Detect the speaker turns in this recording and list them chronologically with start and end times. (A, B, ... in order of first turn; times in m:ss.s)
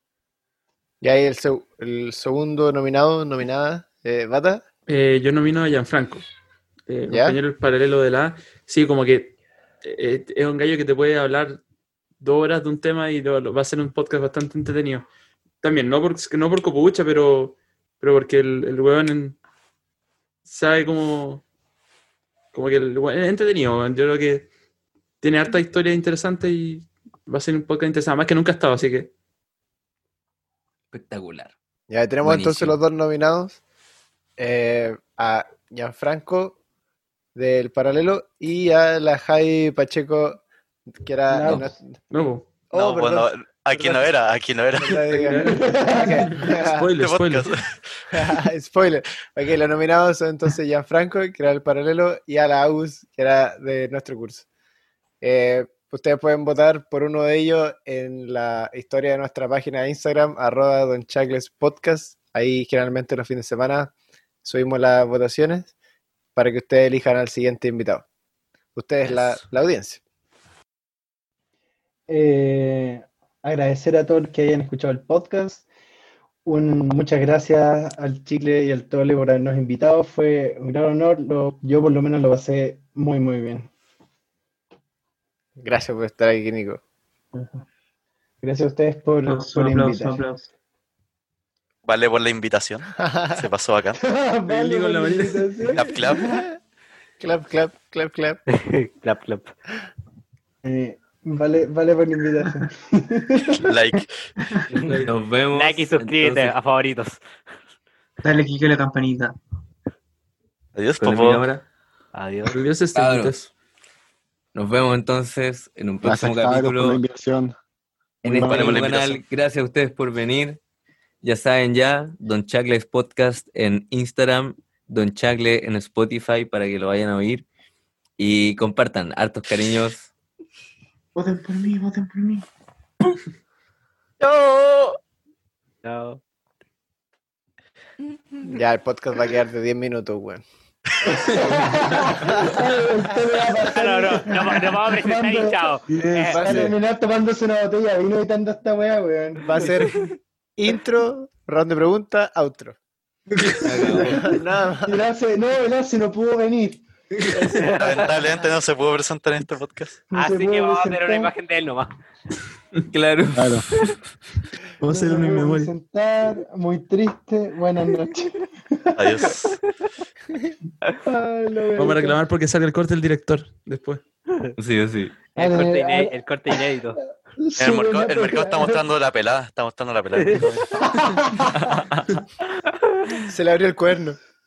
0:01.0-0:04.6 A
0:04.9-0:06.3 B
0:06.9-0:11.6 B
0:07.1-0:07.4 A
0:12.2-0:15.1 B
0:15.6-0:19.4 B
0:20.5-0:21.4 B
0:22.5-0:24.5 B
0:25.2-0:29.1 B
0:30.9-0:31.5 C
0:31.9-0:33.6 A
0:32.2-0:32.8 C
0:34.4-0:36.6 A
0:37.4-0:40.4 A
0:41.0-0:41.9 A
0:41.3-0:41.7 D
0:42.1-0:42.5 B
0:42.7-0:44.1 A
0:42.7-0:45.0 E
0:44.8-0:46.9 A
0:45.0-0:47.5 B
0:45.4-0:46.5 D
0:47.0-0:48.0 E
0:48.1-0:54.5 A
0:55.2-1:05.7 A
1:06.4-1:08.0 A
1:08.8-1:10.0 A
1:12.1-1:15.7 D
1:16.4-1:23.7 D
1:25.6-1:26.8 A
1:27.3-1:27.6 D
1:28.4-1:30.2 D
1:29.3-1:30.5 F
1:31.9-1:34.0 E
1:33.0-1:33.5 A
1:34.0-1:36.2 D
1:34.5-1:35.7 B
1:35.7-1:36.3 E
1:36.2-1:36.5 A
1:37.2-1:38.4 A
1:38.5-1:39.5 G
1:40.6-1:43.7 D
1:43.6-1:44.1 E
1:44.8-1:45.1 B
1:44.9-1:46.6 C
1:45.5-1:47.2 G
1:48.2-1:49.4 F
1:50.8-1:51.4 E
1:51.0-1:51.6 C
1:52.1-1:52.6 G
1:52.4-1:53.5 B
1:53.0-1:53.4 C
1:54.6-1:57.0 C
1:56.0-1:57.5 H
1:58.2-1:58.8 H
1:58.2-2:00.6 C
1:58.5-1:59.2 E
2:01.2-2:07.5 C
2:08.2-2:10.1 C
2:11.2-2:12.4 F
2:14.2-2:15.0 E
2:15.8-2:16.2 G
2:18.4-2:20.4 A
2:21.1-2:25.7 D
2:23.6-2:26.5 G
2:25.9-2:26.8 H
2:26.4-2:26.7 A
2:26.4-2:29.5 D
2:29.4-2:32.8 A
2:33.6-2:34.3 C
2:33.8-2:34.2 D
2:33.9-2:35.1 A
2:34.9-2:36.8 D
2:37.3-2:38.1 G
2:37.8-2:40.0 E
2:40.1-2:41.3 D
2:40.1-2:41.9 G
2:42.9-2:43.6 C
2:43.4-2:43.6 H
2:44.8-2:45.7 B
2:44.8-2:49.3 D
2:49.0-2:49.6 E
2:51.0-2:52.2 D
2:51.8-2:54.0 B
2:54.6-2:55.2 C
2:55.4-2:57.0 G
2:55.4-2:56.2 D
2:57.4-2:58.9 D
2:57.6-3:00.8 E
3:00.2-3:00.5 G
3:01.0-3:01.5 D
3:01.7-3:02.2 E
3:03.3-3:04.2 A